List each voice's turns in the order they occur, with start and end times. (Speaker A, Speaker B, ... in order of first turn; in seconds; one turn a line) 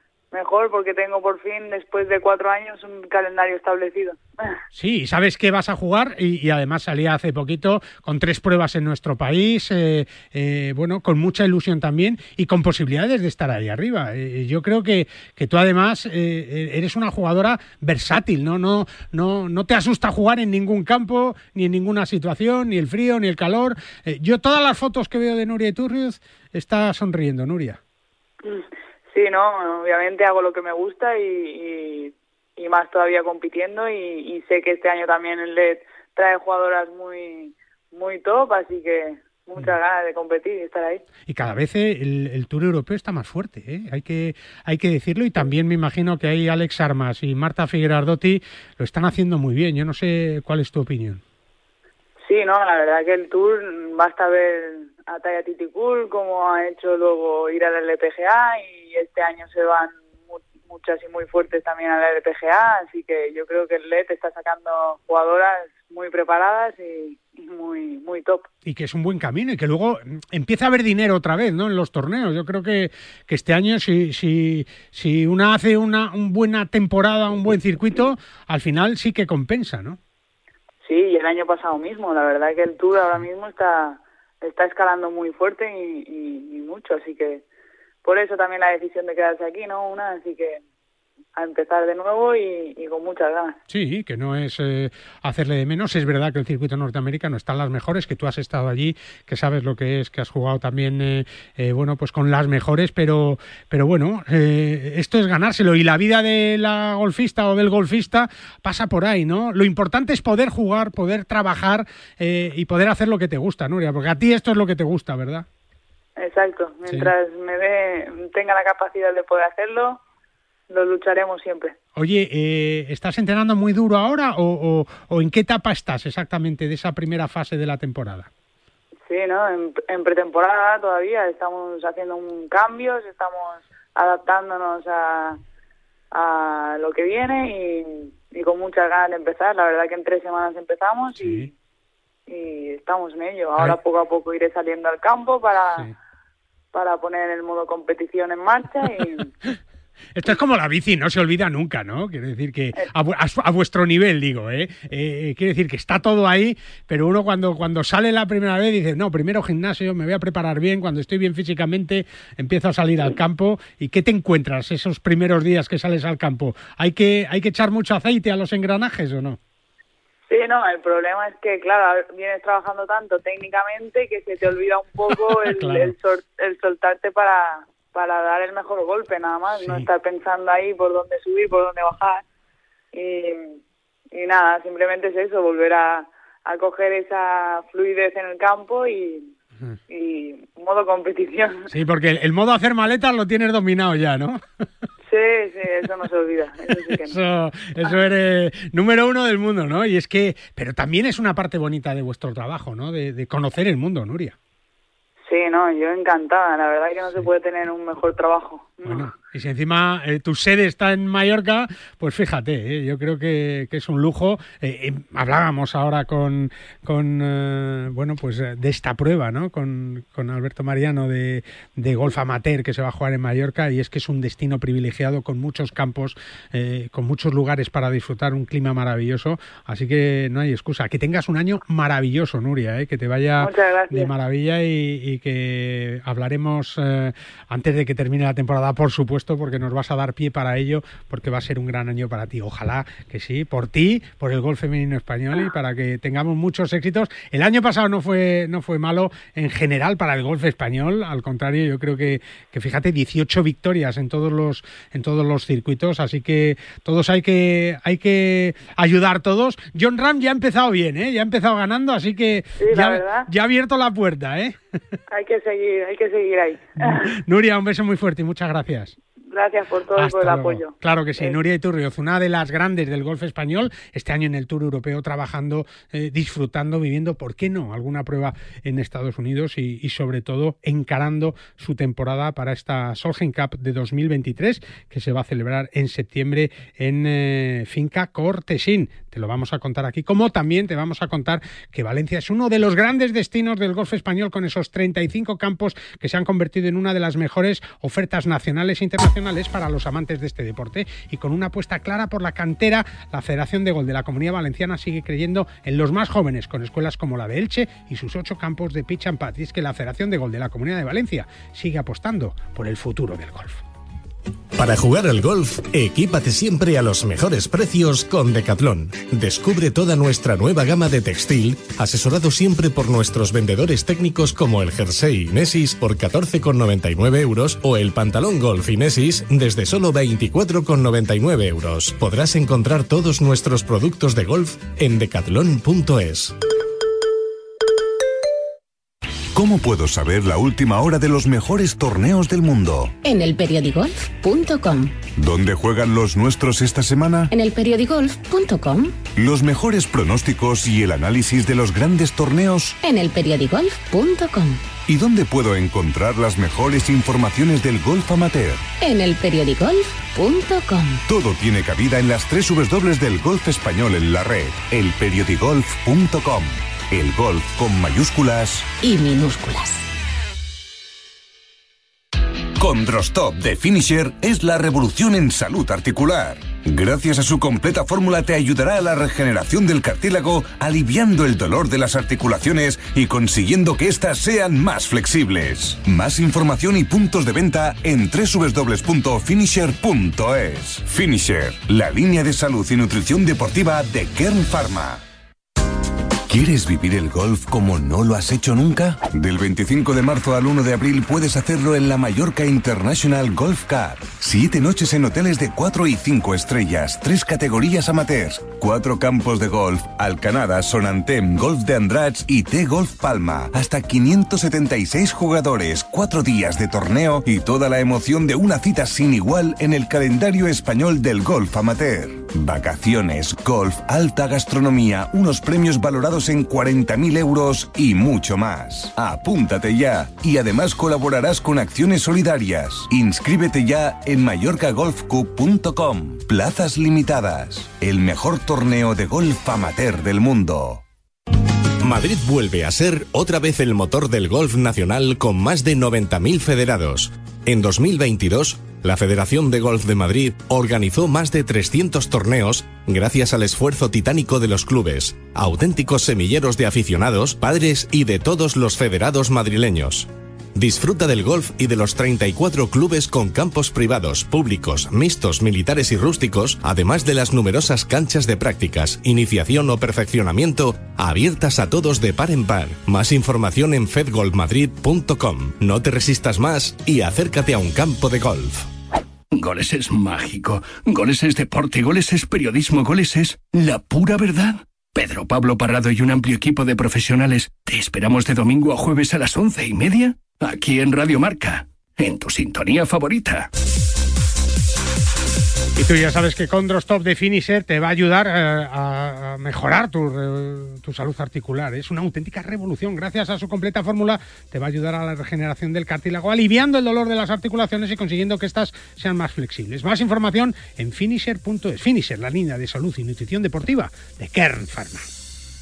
Speaker A: 0.3-4.6
Speaker B: 4.7-27.8
Speaker A: 28.4-41.0
Speaker B: 41.3-51.2
Speaker A: 52.2-68.5
Speaker B: 68.7-80.0
Speaker A: 80.8-87.4
Speaker A: 88.0-90.6
Speaker A: 91.3-93.6
Speaker B: 93.7-115.5
Speaker A: 116.2-120.0
Speaker B: 116.9-117.1
Speaker A: 120.7-121.8
Speaker B: 122.0-128.3
Speaker A: 129.1-135.4
Speaker A: 136.1-141.5
Speaker B: 141.2-141.5
Speaker A: 142.3-145.9
Speaker A: 146.7-149.3
Speaker B: 150.2-169.4
Speaker A: 170.3-182.2
Speaker B: 175.3-175.9
Speaker B: 179.5-179.9
Speaker A: 182.9-183.6
Speaker A: 184.1-189.3
Speaker A: 189.9-191.7
Speaker B: 191.7-194.4
Speaker A: 195.1-197.2
Speaker B: 196.7-204.3
Speaker A: 205.3-209.1
Speaker B: 208.8-264.6
Speaker A: 233.4-234.1
Speaker A: 262.6-263.3
Speaker A: 265.1-267.2
Speaker B: 266.8-269.0
Speaker A: 269.2-271.4
Speaker B: 270.0-313.6
Speaker C: 314.6-336.4
Speaker D: 339.3-342.9
Speaker E: 343.0-345.0
Speaker D: 345.2-347.3
Speaker E: 347.3-349.0
Speaker D: 349.2-352.8
Speaker E: 352.8-354.6
Speaker D: 354.9-358.6
Speaker E: 358.8-361.0
Speaker D: 361.1-368.7
Speaker E: 368.8-369.9
Speaker D: 372.6-395.0
Speaker D: 396.3-440.8
Speaker C: 441.8-478.7
Speaker F: 479.3-493.5
Speaker B: 495.8-515.1